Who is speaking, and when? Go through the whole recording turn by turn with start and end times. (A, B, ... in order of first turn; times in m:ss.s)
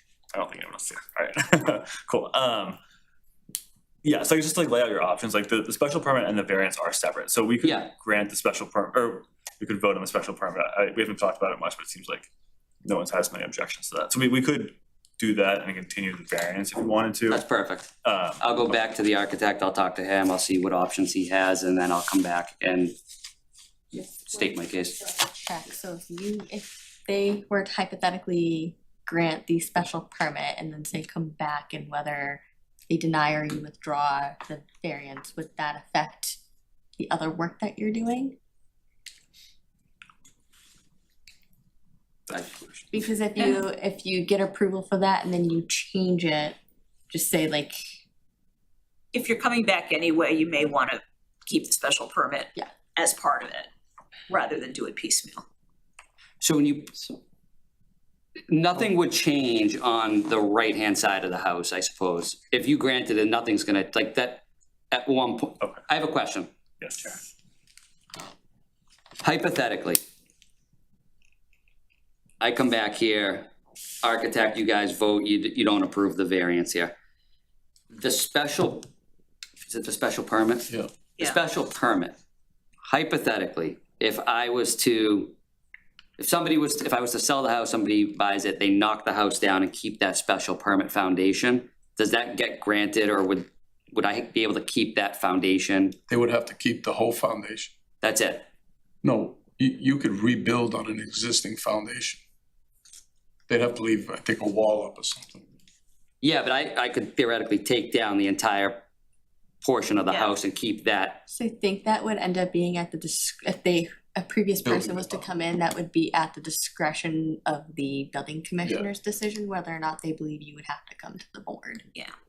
0:00.3-0:02.8 A
0:04.0-0:12.3 A
0:07.6-0:07.9 B
0:12.8-0:17.5 A
0:17.3-0:23.0 B
0:18.0-0:18.7 A
0:23.9-0:36.4 C
0:24.1-0:25.1 B
0:37.0-0:38.4 C
0:42.9-0:46.6 C
0:47.1-0:47.8 C
0:49.1-0:53.7 D
0:54.3-0:55.4 D
0:56.4-0:57.1 B
0:58.5-1:06.5 B
1:06.8-1:07.2 A
1:09.2-1:10.0 B
1:12.4-1:13.5 B
1:14.0-1:16.9 B
1:18.0-1:18.9 B
1:19.6-1:22.2 B
1:22.8-1:25.3 B
1:26.2-1:36.0 B
1:36.1-1:37.7 E
1:38.0-1:38.5 B
1:39.0-1:42.2 E
1:43.5-1:45.5 E
1:46.2-1:48.8 B
1:49.6-1:51.3 B
1:50.1-1:50.4 D
1:51.3-2:01.8 C
1:54.6-1:55.3 E